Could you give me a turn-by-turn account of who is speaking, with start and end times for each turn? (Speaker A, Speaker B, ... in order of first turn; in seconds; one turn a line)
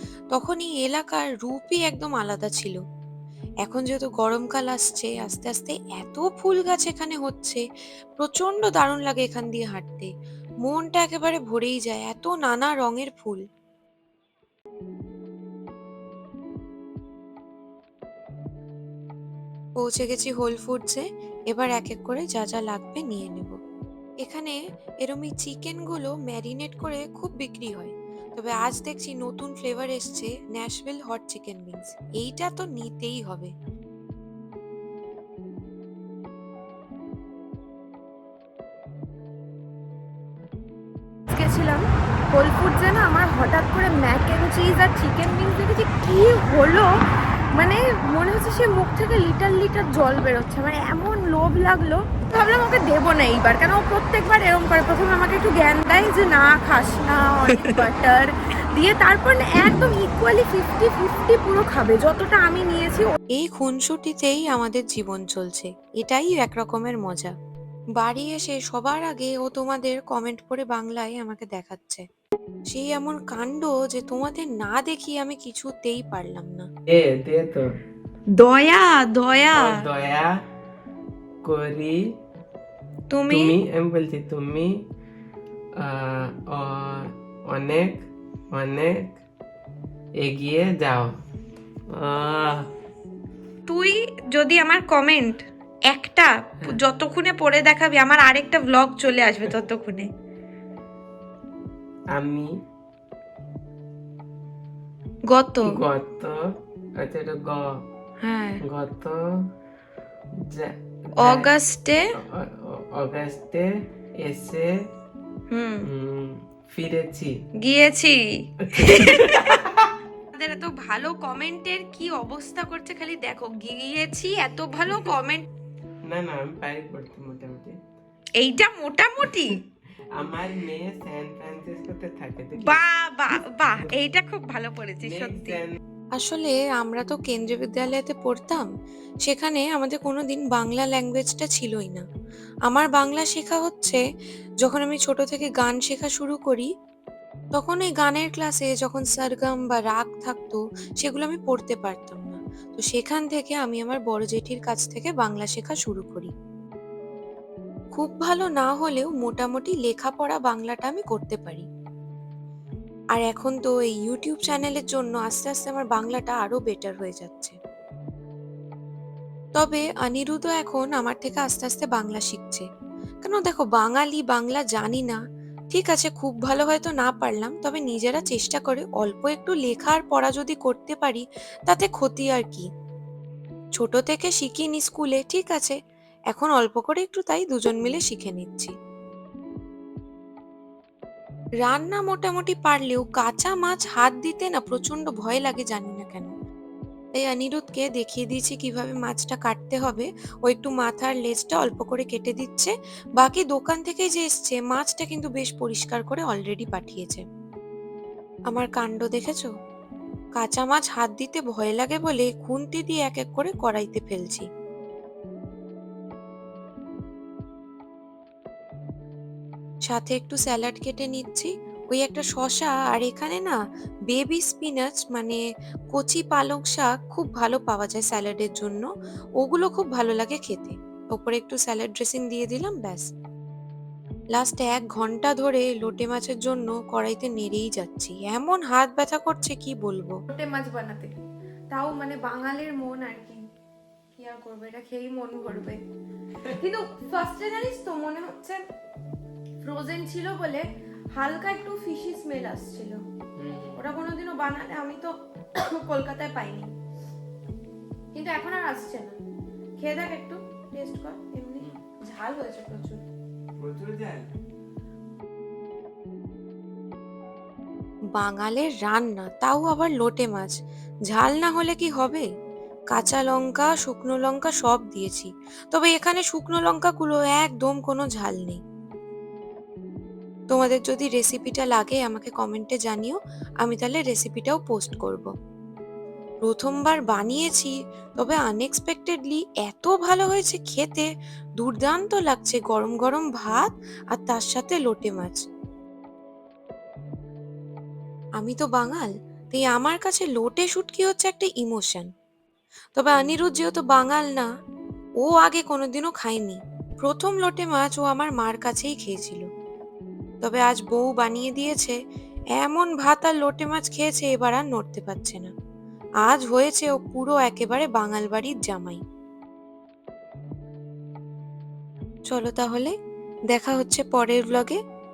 Speaker A: 0.3-2.8
Speaker A: 3.6-7.6
Speaker A: 8.2-10.1
Speaker A: 10.6-13.4
Speaker A: 19.8-23.6
Speaker A: 24.2-33.5
Speaker B: 41.3-46.9
Speaker B: 47.5-63.1
Speaker A: 63.3-67.3
Speaker A: 68.0-72.0
Speaker A: 72.7-76.6
Speaker C: 76.9-77.7
Speaker B: 78.4-79.8
Speaker C: 79.5-80.3
Speaker C: 81.4-82.0
Speaker B: 83.1-83.5
Speaker C: 83.3-84.7
Speaker C: 85.8-89.2
Speaker C: 90.2-91.2
Speaker C: 91.9-92.7
Speaker B: 93.7-100.1
Speaker C: 102.1-102.5
Speaker B: 105.3-105.7
Speaker C: 105.6-106.4
Speaker C: 107.0-107.7
Speaker B: 108.2-108.6
Speaker C: 108.7-109.2
Speaker C: 110.4-111.5
Speaker B: 111.2-112.0
Speaker C: 112.3-113.7
Speaker C: 114.2-114.7
Speaker B: 115.5-115.9
Speaker C: 115.9-117.3
Speaker B: 117.6-119.6
Speaker C: 118.7-119.9
Speaker B: 120.3-125.5
Speaker C: 126.1-127.8
Speaker B: 128.4-129.6
Speaker C: 130.2-132.8
Speaker B: 132.6-135.6
Speaker C: 135.0-135.8
Speaker A: 136.2-138.7
Speaker A: 139.3-142.0
Speaker A: 142.7-144.0
Speaker A: 144.6-146.7
Speaker A: 147.6-156.3
Speaker A: 157.9-161.7
Speaker A: 163.2-167.6
Speaker A: 169.6-172.6
Speaker A: 173.2-175.2
Speaker A: 175.7-182.7
Speaker A: 183.8-185.8
Speaker A: 186.3-188.7
Speaker A: 191.7-196.3
Speaker B: 192.1-192.5
Speaker A: 197.1-207.2
Speaker A: 208.5-209.5
Speaker A: 210.4-214.5
Speaker A: 219.9-223.6
Speaker A: 224.1-228.9
Speaker A: 229.4-233.1
Speaker A: 234.3-240.2
Speaker B: 240.3-241.1
Speaker B: 241.7-243.4
Speaker B: 244.2-245.8
Speaker B: 246.6-248.6
Speaker B: 249.6-253.0
Speaker C: 253.4-253.8
Speaker B: 253.8-256.7
Speaker B: 258.1-259.2
Speaker B: 259.8-263.0
Speaker C: 263.6-264.3
Speaker A: 268.1-270.5
Speaker A: 271.1-272.2
Speaker A: 272.9-278.6
Speaker A: 280.5-285.3
Speaker A: 286.4-295.4
Speaker A: 298.4-302.1
Speaker A: 302.9-304.5
Speaker A: 305.2-309.4
Speaker A: 310.4-312.0
Speaker A: 312.6-315.5
Speaker A: 316.2-319.0
Speaker A: 322.3-322.9
Speaker A: 323.5-324.8